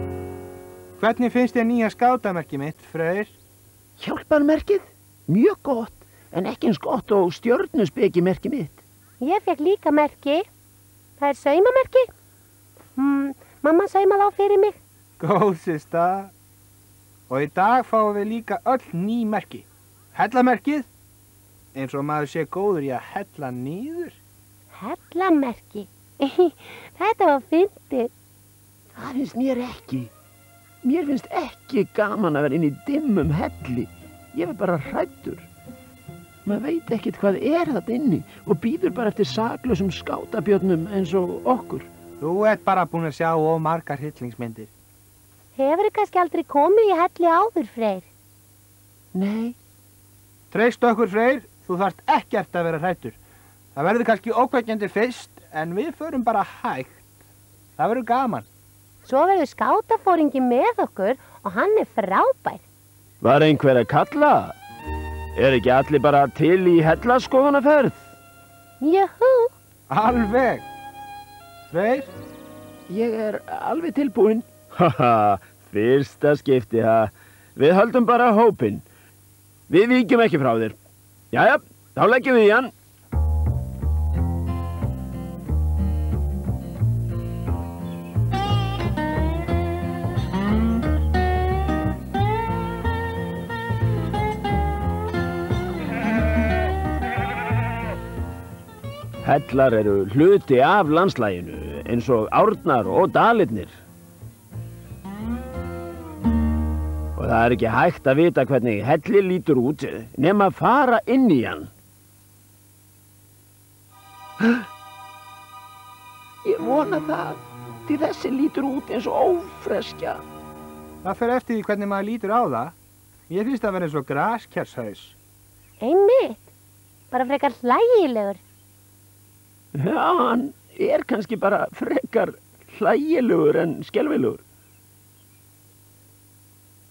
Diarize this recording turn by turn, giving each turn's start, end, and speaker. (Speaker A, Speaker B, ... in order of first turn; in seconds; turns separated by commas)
Speaker A: 1.0-3.3, Speaker B: 4.0-8.8, Speaker C: 9.2-10.5, Speaker C: 11.2-12.1, Speaker C: 12.9-14.8, Speaker A: 15.2-16.3, Speaker A: 17.3-20.9, Speaker A: 21.7-24.2, Speaker C: 24.7-28.1, Speaker B: 28.9-30.1, Speaker B: 30.8-35.5, Speaker B: 36.5-41.9, Speaker A: 42.2-44.7, Speaker C: 45.5-48.1, Speaker B: 49.1-49.6, Speaker A: 50.5-53.2, Speaker A: 53.8-57.0, Speaker A: 57.8-58.5, Speaker C: 59.0-62.6, Speaker B: 63.2-64.6, Speaker B: 65.3-68.1, Speaker C: 68.8-69.5, Speaker A: 69.9-70.7, Speaker A: 71.7-72.1, Speaker B: 72.9-78.8, Speaker B: 79.7-80.8, Speaker B: 81.3-82.7, Speaker B: 99.2-103.8, Speaker B: 107.2-111.7, Speaker B: 116.4-120.2, Speaker A: 121.0-122.7, Speaker A: 123.3-125.2, Speaker C: 125.8-126.5, Speaker C: 127.1-128.4, Speaker B: 129.8-134.4